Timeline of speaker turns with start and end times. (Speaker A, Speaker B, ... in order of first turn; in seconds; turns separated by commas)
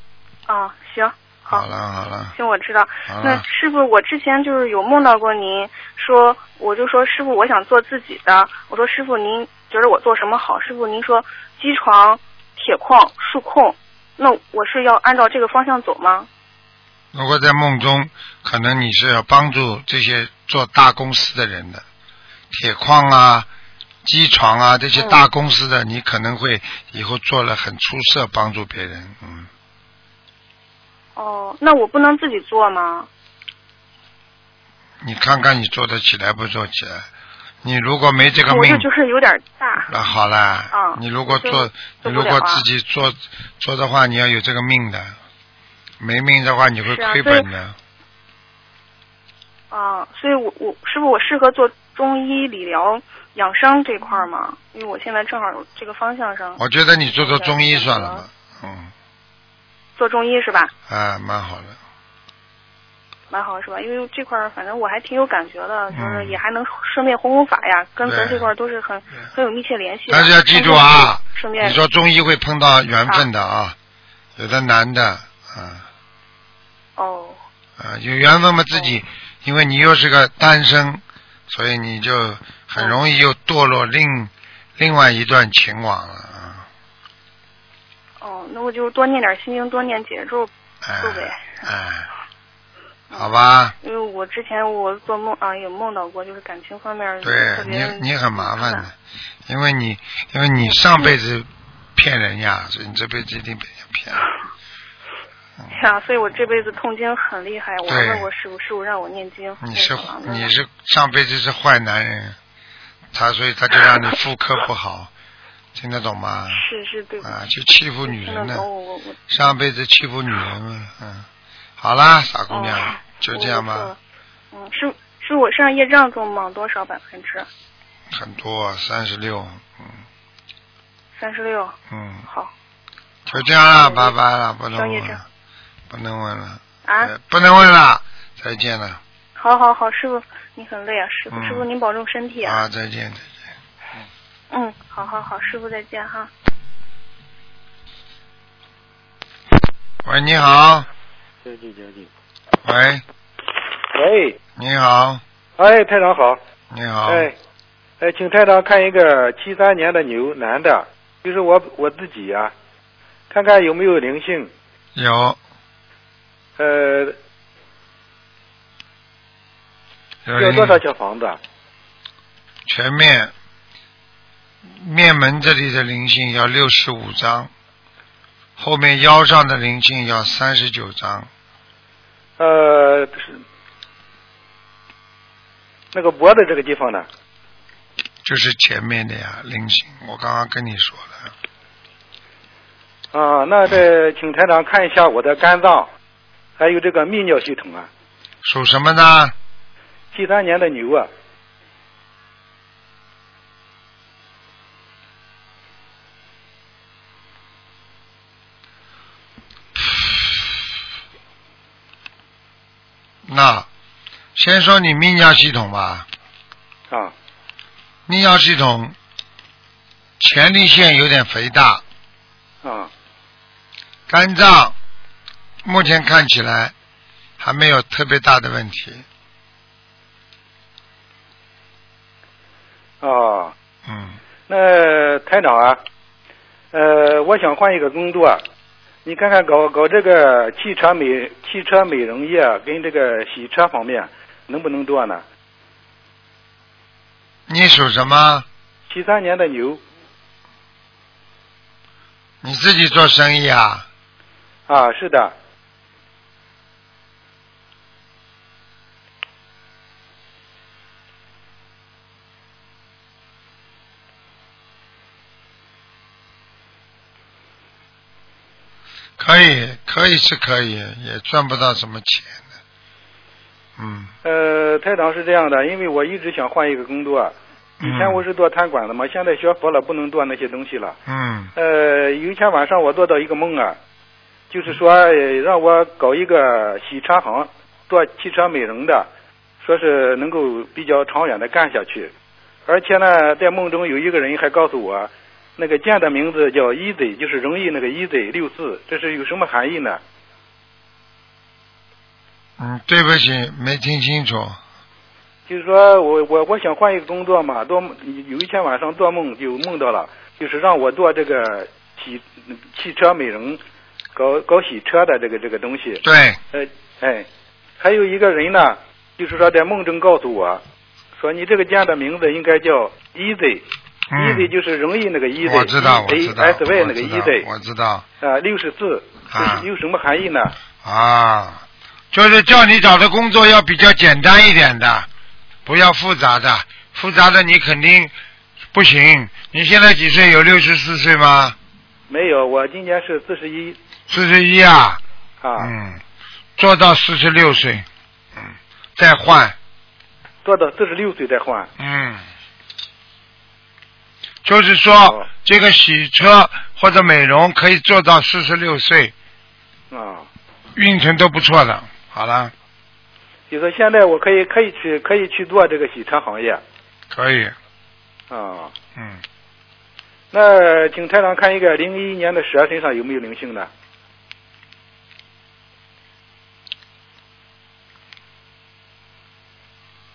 Speaker A: 0.5-1.7, Speaker B: 1.5-2.4, Speaker A: 2.3-16.3, Speaker B: 3.1-3.4, Speaker B: 17.1-21.8, Speaker B: 22.5-23.5, Speaker B: 24.1-29.5, Speaker A: 24.9-25.2, Speaker A: 31.2-33.1, Speaker B: 35.0-37.0, Speaker B: 37.6-38.9, Speaker A: 38.5-39.9, Speaker B: 39.9-45.2, Speaker A: 40.7-42.6, Speaker B: 46.0-47.8, Speaker A: 46.9-47.5, Speaker A: 49.7-58.2, Speaker B: 56.6-58.9, Speaker A: 60.0-60.7, Speaker B: 60.9-61.8, Speaker A: 63.3-71.8, Speaker B: 65.9-66.3, Speaker B: 68.0-68.5, Speaker B: 70.1-73.8, Speaker B: 74.4-75.8, Speaker A: 77.0-77.4, Speaker B: 77.8-86.7, Speaker A: 88.2-90.5, Speaker B: 90.8-92.1, Speaker A: 91.0-91.6, Speaker A: 93.1-98.9, Speaker B: 93.1-93.8, Speaker B: 97.2-98.9, Speaker B: 99.5-104.2, Speaker A: 100.6-101.2, Speaker A: 105.7-110.5, Speaker B: 107.9-108.2, Speaker B: 109.6-112.4, Speaker B: 113.1-115.1, Speaker B: 115.8-116.6, Speaker A: 116.5-117.4, Speaker B: 117.2-118.7, Speaker A: 118.0-119.2, Speaker B: 119.3-121.3, Speaker B: 121.8-123.9, Speaker A: 122.5-124.0, Speaker A: 124.5-127.5, Speaker B: 128.1-130.0, Speaker A: 131.2-131.8, Speaker B: 131.9-132.3, Speaker B: 133.3-135.2, Speaker A: 133.3-134.2, Speaker A: 134.7-135.2, Speaker B: 135.9-139.0, Speaker A: 136.8-137.1, Speaker A: 139.4-142.6, Speaker B: 141.3-141.6, Speaker B: 142.4-143.4, Speaker A: 144.5-146.3, Speaker B: 150.1-150.9, Speaker C: 151.4-152.1, Speaker B: 152.6-153.0, Speaker C: 153.9-154.4, Speaker B: 154.6-155.2, Speaker C: 155.6-156.4, Speaker B: 156.7-157.3, Speaker C: 157.1-157.3, Speaker C: 158.0-162.5, Speaker C: 163.3-164.5, Speaker B: 165.0-165.4, Speaker C: 166.6-167.2, Speaker B: 170.3-170.8, Speaker C: 170.4-171.4, Speaker B: 172.7-173.3, Speaker B: 174.6-177.5, Speaker B: 178.6-181.3, Speaker C: 182.4-183.4, Speaker C: 185.9-187.1, Speaker B: 188.2-191.3, Speaker C: 193.1-195.9, Speaker C: 196.6-197.9, Speaker B: 198.4-199.3, Speaker C: 200.1-201.1, Speaker B: 213.3-213.7, Speaker B: 214.4-216.1, Speaker B: 218.1-219.0, Speaker B: 220.2-221.8, Speaker C: 222.6-222.9, Speaker B: 224.1-224.8, Speaker B: 225.7-226.7, Speaker B: 227.4-229.1, Speaker C: 233.0-233.6, Speaker B: 233.9-234.2, Speaker C: 234.5-235.8, Speaker C: 236.7-238.4, Speaker C: 239.1-245.2, Speaker B: 247.5-248.5, Speaker C: 248.9-249.8, Speaker B: 252.4-253.9, Speaker C: 254.7-255.3, Speaker B: 269.2-272.4, Speaker B: 273.8-274.1, Speaker C: 274.2-281.0, Speaker B: 277.8-278.2, Speaker B: 281.1-281.5, Speaker C: 281.6-283.8, Speaker C: 284.5-289.1, Speaker C: 289.6-292.1, Speaker C: 292.7-300.0, Speaker B: 302.6-304.6, Speaker C: 305.5-313.6, Speaker C: 314.1-316.0, Speaker B: 316.0-316.4, Speaker C: 316.5-317.3, Speaker C: 317.8-320.6, Speaker C: 321.2-327.5, Speaker B: 324.1-324.5, Speaker B: 325.4-328.1, Speaker C: 328.2-330.6, Speaker B: 329.3-329.7, Speaker B: 330.8-331.6, Speaker B: 332.1-335.1, Speaker B: 335.7-338.1, Speaker B: 338.7-341.6, Speaker C: 342.1-343.8, Speaker B: 344.1-345.0, Speaker C: 345.4-345.7, Speaker B: 345.6-346.0, Speaker B: 346.6-347.9, Speaker B: 348.4-349.6, Speaker C: 350.4-351.7, Speaker B: 351.8-352.2, Speaker B: 354.4-359.1, Speaker C: 355.0-355.3, Speaker C: 359.9-360.3, Speaker B: 360.8-362.5, Speaker C: 363.5-366.6, Speaker B: 367.1-367.6, Speaker C: 368.3-368.7, Speaker C: 370.3-373.7